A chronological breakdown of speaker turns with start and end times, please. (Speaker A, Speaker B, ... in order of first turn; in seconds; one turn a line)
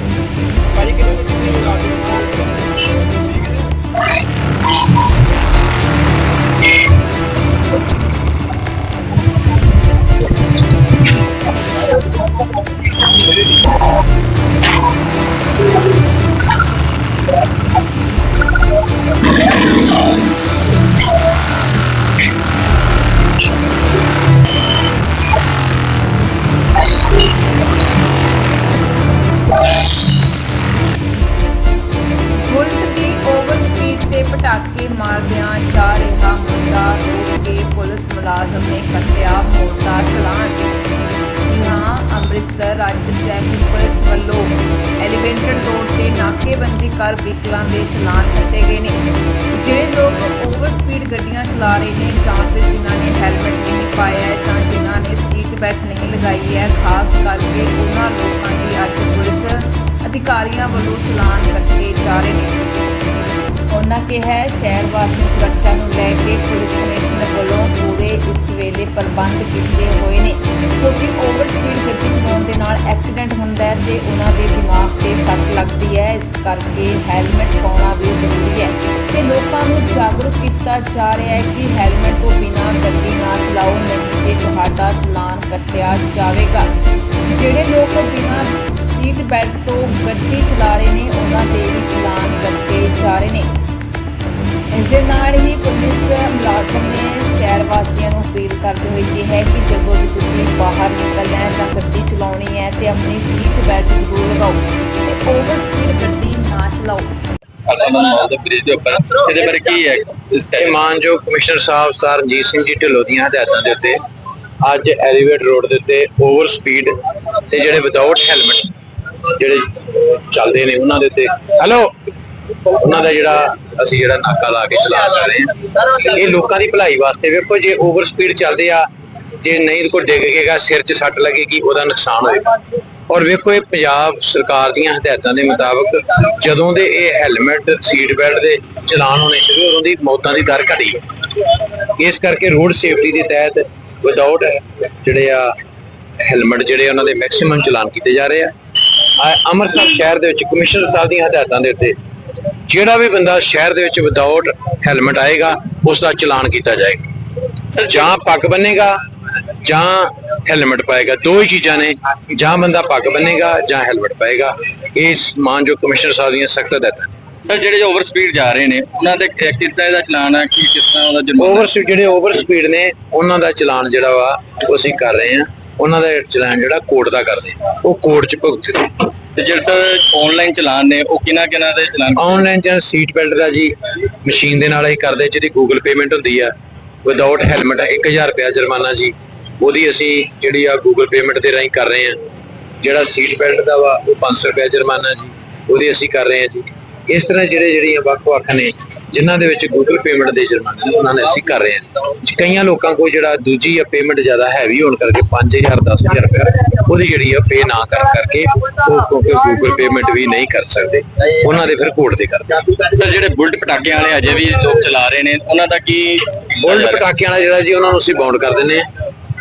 Speaker A: 0.7-2.8
Speaker B: 32.3-40.6
Speaker B: 41.4-49.0
Speaker B: 49.5-62.6
Speaker B: 63.7-86.7
Speaker B: 87.3-93.5
Speaker B: 94.7-107.2
Speaker C: 107.7-110.8
Speaker D: 110.6-114.0
Speaker D: 114.6-116.9
Speaker D: 117.5-118.7
Speaker D: 119.3-121.9
Speaker D: 122.7-128.9
Speaker D: 129.4-132.6
Speaker D: 133.1-141.0
Speaker D: 141.9-145.5
Speaker D: 146.2-148.5
Speaker D: 149.2-152.0
Speaker D: 152.7-157.0
Speaker C: 157.7-158.1
Speaker D: 157.8-159.0
Speaker D: 159.6-167.1
Speaker C: 167.4-171.7
Speaker D: 171.4-179.0
Speaker C: 179.3-182.3
Speaker D: 182.2-186.5
Speaker D: 187.0-192.2
Speaker D: 192.8-212.7
Speaker C: 212.8-217.1
Speaker D: 216.6-218.9